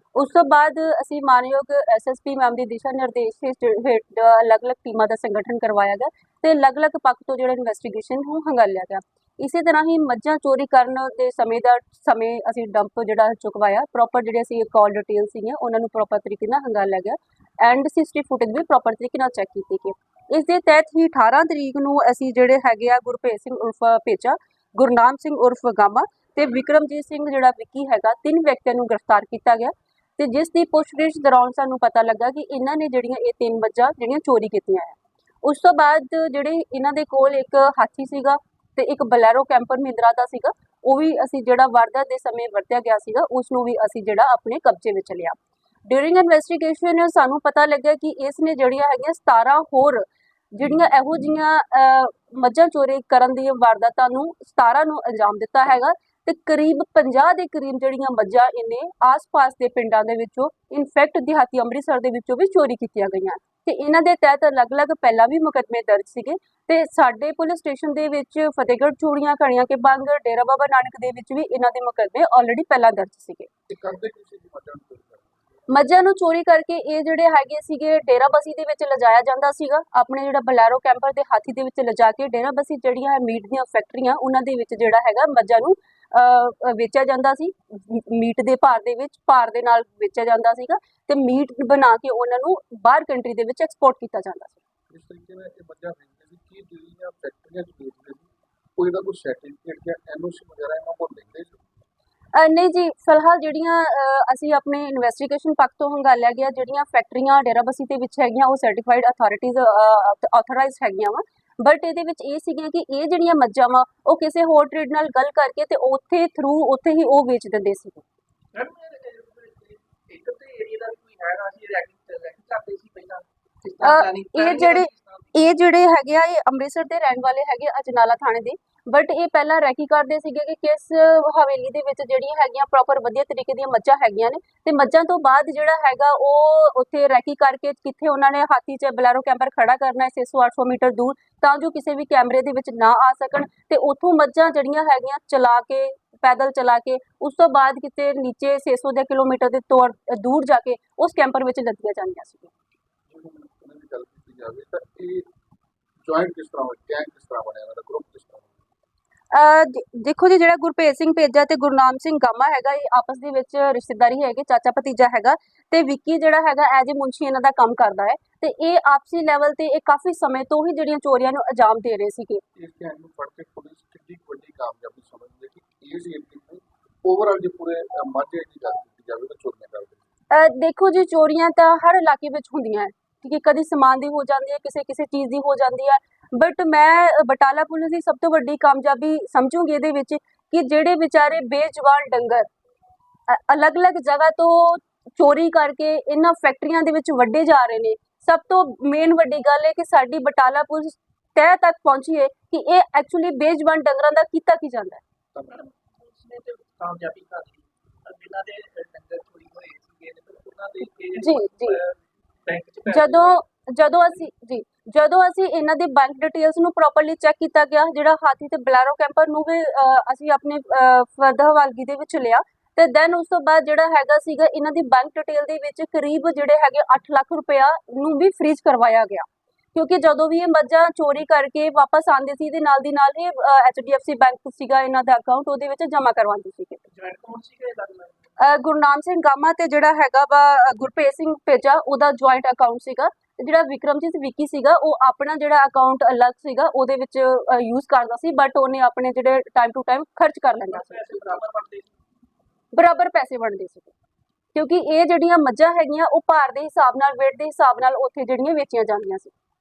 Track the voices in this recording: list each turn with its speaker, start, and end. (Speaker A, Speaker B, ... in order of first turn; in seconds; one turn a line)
Speaker A: 0.1-45.4
Speaker A: 45.9-73.5
Speaker B: 73.7-75.4
Speaker A: 75.7-94.6
Speaker B: 94.9-101.7
Speaker A: 102.3-118.0
Speaker C: 118.5-125.5
Speaker A: 123.8-152.5
Speaker B: 153.1-155.3
Speaker B: 156.0-158.6
Speaker A: 159.3-172.4
Speaker B: 172.6-180.0
Speaker A: 180.3-192.5
Speaker A: 193.3-205.0
Speaker B: 205.3-205.6
Speaker C: 205.5-213.4
Speaker A: 211.2-211.8
Speaker A: 212.9-236.8
Speaker C: 236.9-238.3
Speaker A: 238.4-251.1
Speaker C: 250.7-251.9
Speaker A: 252.7-253.9
Speaker A: 254.5-259.3